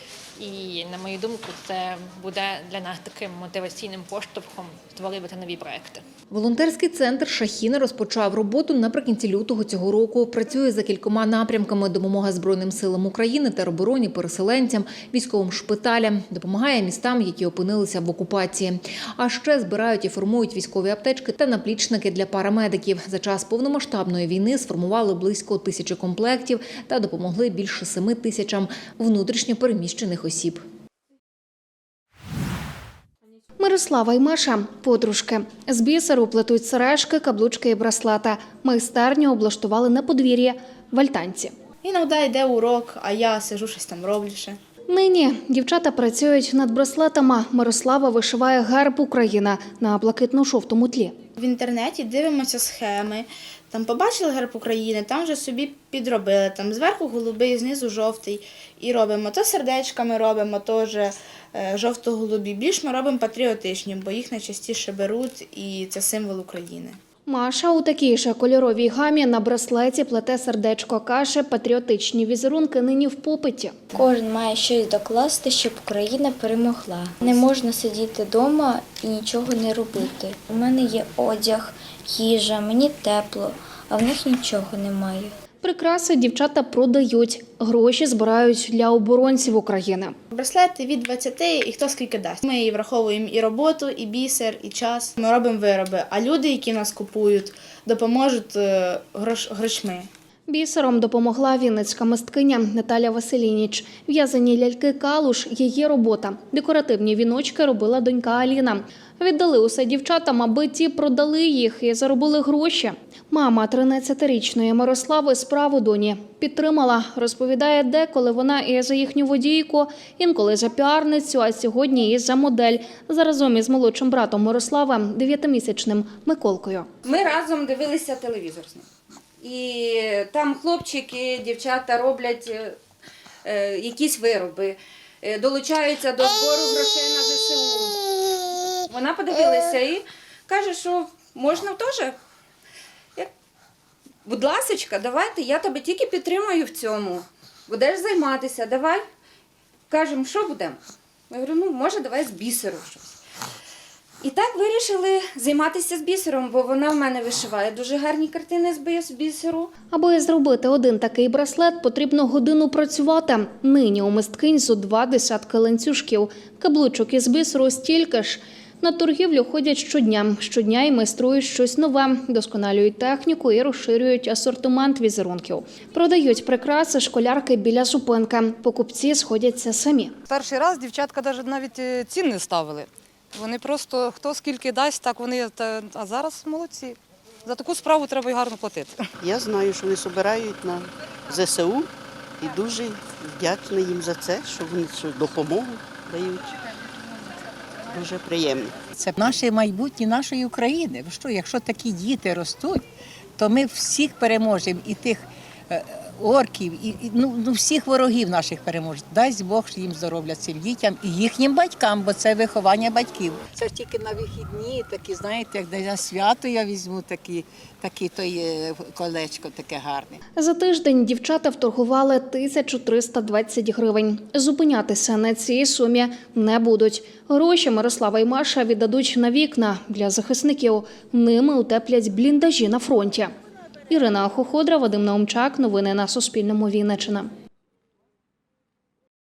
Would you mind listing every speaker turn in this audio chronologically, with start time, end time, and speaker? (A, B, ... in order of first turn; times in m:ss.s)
0:00.4-0:06.0 A
0:06.3-0:30.6 B
0:33.6-0:41.5 C
0:41.8-0:44.6 D
0:44.9-0:51.1 C
0:51.4-1:07.0 D
1:07.3-1:13.7 C
1:13.9-1:25.3 E
1:25.6-1:30.1 C
1:30.3-1:40.1 D
1:40.5-2:06.9 C
2:07.0-2:08.8 F
2:09.4-2:12.8 F
2:13.4-2:18.0 F
2:18.9-2:22.1 F
2:24.2-2:29.0 F
2:29.9-2:30.8 F
2:31.3-2:33.1 F
2:34.2-2:39.7 F
2:39.9-3:00.1 C
3:00.3-3:09.0 G
3:09.2-3:11.9 H
3:12.4-3:16.5 H
3:17.9-3:18.8 H
3:19.0-3:22.8 I
3:23.4-3:40.2 I
3:40.4-3:53.3 C
3:53.9-3:57.3 C